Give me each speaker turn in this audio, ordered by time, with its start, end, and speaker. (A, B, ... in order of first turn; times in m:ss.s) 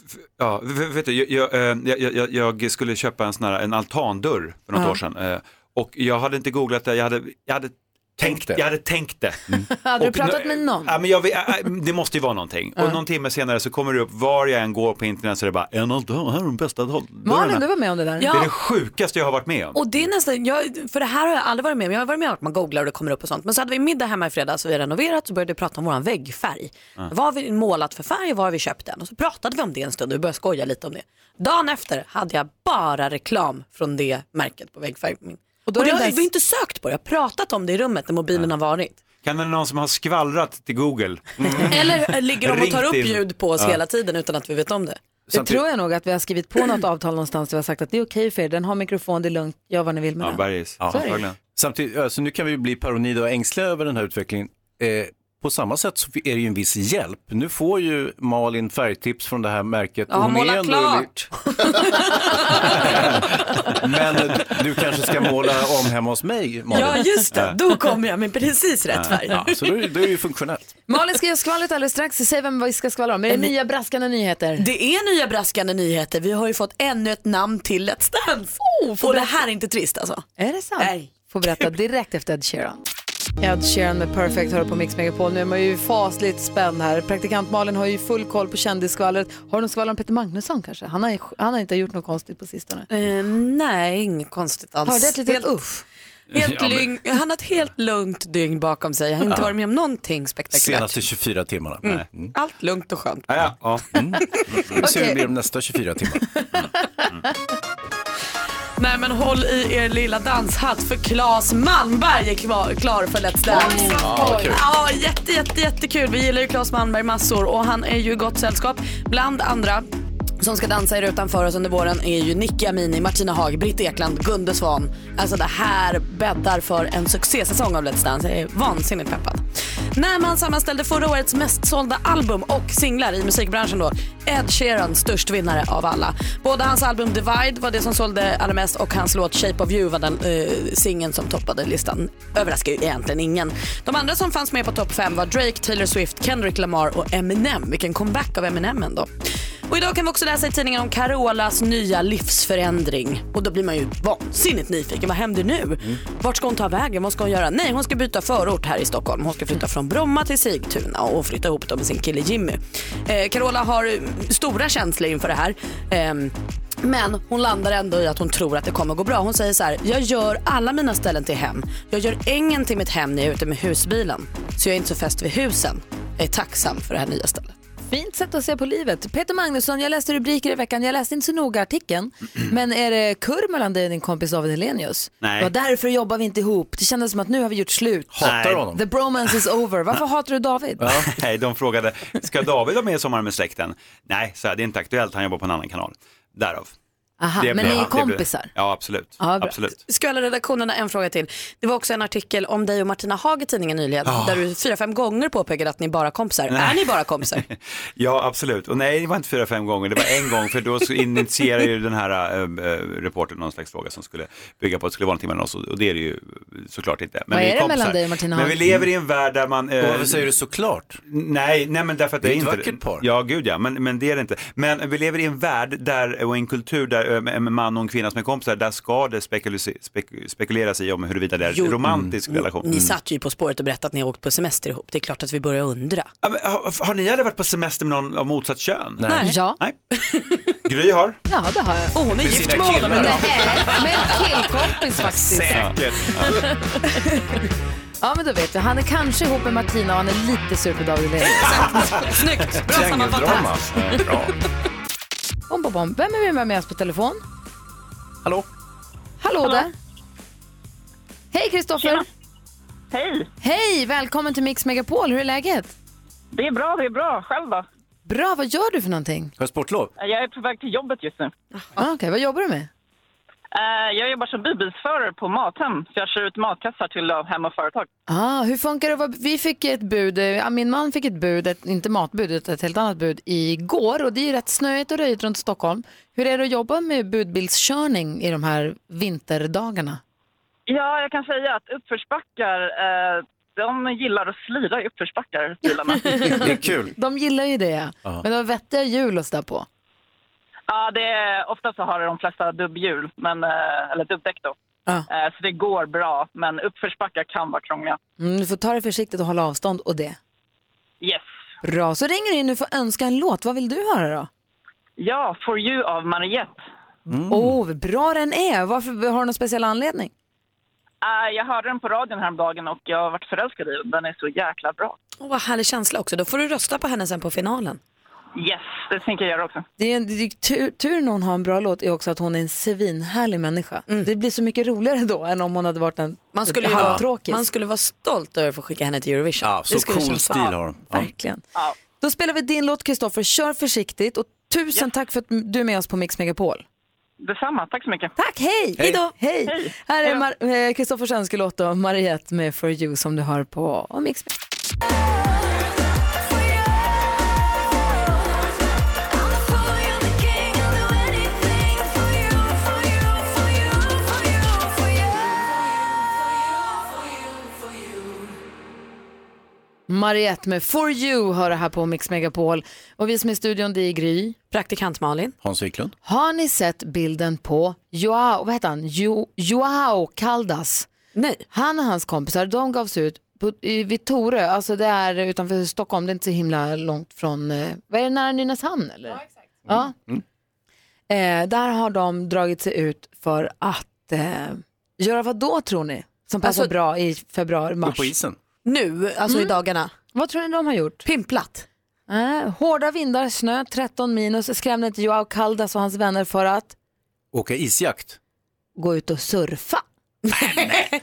0:00.4-0:17.7 A
0:08.2-0:08.6 B
0:09.8-0:10.9 C
0:17.2-0:18.4 C
0:18.2-0:18.5 D
0:18.3-0:19.8 A
0:19.7-0:39.0 D
0:35.7-0:36.2 C
0:39.2-0:43.7 A
0:41.5-0:41.7 B
0:41.7-0:45.0 D
0:45.3-0:45.6 B
0:45.3-0:51.2 C
0:50.2-0:51.4 A
0:50.8-1:01.2 B
1:00.1-1:03.1 D
1:02.6-1:07.2 B
1:06.7-1:09.8 D
1:07.3-1:07.6 A
1:08.9-1:09.2 A
1:09.2-1:10.7 B
1:10.9-1:14.6 C
1:14.6-1:20.2 D
1:18.7-1:19.3 C
1:20.4-1:22.8 C
1:20.8-1:21.7 D
1:23.4-1:32.9 C
1:32.9-1:35.5 D
1:34.8-1:35.8 C
1:36.3-1:36.9 A
1:36.3-1:41.0 D
1:39.2-1:39.5 B
1:40.5-1:42.3 B
1:41.8-1:43.3 D
1:43.3-1:43.9 A
1:43.9-1:46.2 B
1:44.8-1:45.2 C
1:48.8-1:59.9 D
1:53.5-1:54.5 C
1:54.0-1:54.6 B
2:00.4-2:09.4 D
2:10.0-2:29.1 D
2:29.7-2:57.5 D
2:57.9-3:10.8 C
3:05.2-3:05.5 A
3:08.1-3:08.8 B
3:08.2-3:08.7 A
3:10.8-3:11.2 B
3:10.9-3:16.7 A
3:17.2-3:18.5 C
3:17.4-3:19.8 A
3:17.6-3:17.9 B
3:19.2-3:19.6 C
3:19.9-3:27.4 D
3:24.0-3:24.4 A
3:26.5-3:40.3 A
3:37.3-3:38.6 C
3:39.8-3:41.0 B
3:41.1-3:52.8 A
3:42.2-3:43.1 B
3:51.5-3:56.1 D
3:51.9-3:53.0 B
3:56.2-3:59.8 A
3:59.0-3:59.4 B
3:59.1-3:59.4 D
3:59.2-3:59.6 C
4:00.0-4:00.4 D
4:00.6-4:01.2 A
4:01.3-4:01.9 C
4:02.0-4:03.7 D
4:02.2-4:04.3 B
4:03.0-4:05.5 C
4:05.4-4:06.5 A
4:08.0-4:11.6 C
4:11.2-4:14.1 D
4:11.6-4:12.1 A
4:12.7-4:14.3 B
4:15.5-4:17.2 C
4:19.2-4:19.7 C
4:21.3-4:22.1 C
4:22.9-4:23.3 E
4:23.4-4:25.7 C
4:26.3-4:27.6 E
4:28.1-4:29.3 C
4:29.4-4:29.9 B
4:30.0-4:31.3 E
4:31.8-4:32.7 C
4:33.6-4:37.9 E
4:38.1-4:50.0 C
4:50.7-4:56.4 E
4:56.0-4:59.7 C
4:56.3-4:56.9 B
5:00.7-5:04.6 E
5:05.1-5:08.0 E
5:08.2-5:10.2 C
5:11.0-5:11.3 E
5:11.6-5:14.3 C
5:15.0-5:16.6 E
5:17.1-5:17.6 B
5:17.3-5:20.1 C
5:21.0-5:25.0 E
5:25.2-5:27.8 D
5:28.4-5:29.6 E
5:29.8-5:37.4 C
5:36.3-5:40.4 D
5:36.7-5:37.0 B
5:39.4-5:41.1 B
5:40.9-5:41.4 C
5:42.0-5:46.6 C
5:47.2-5:48.1 E
5:48.2-5:54.4 C
5:49.5-5:50.2 E
6:09.9-6:14.4 C
6:14.5-6:15.3 D
6:15.4-6:15.9 B
6:16.0-6:20.9 C
6:21.2-6:21.4 D
6:21.5-6:29.9 C
6:29.7-6:30.2 B
6:31.1-6:38.1 C
6:36.4-6:36.7 D
6:37.8-6:38.4 B
6:38.6-6:39.9 D
6:39.3-6:39.6 C
6:40.1-6:41.0 C
6:41.0-6:41.7 D
6:42.1-6:46.7 C
6:47.3-6:48.2 B
6:48.8-6:49.8 C
6:50.4-6:50.9 D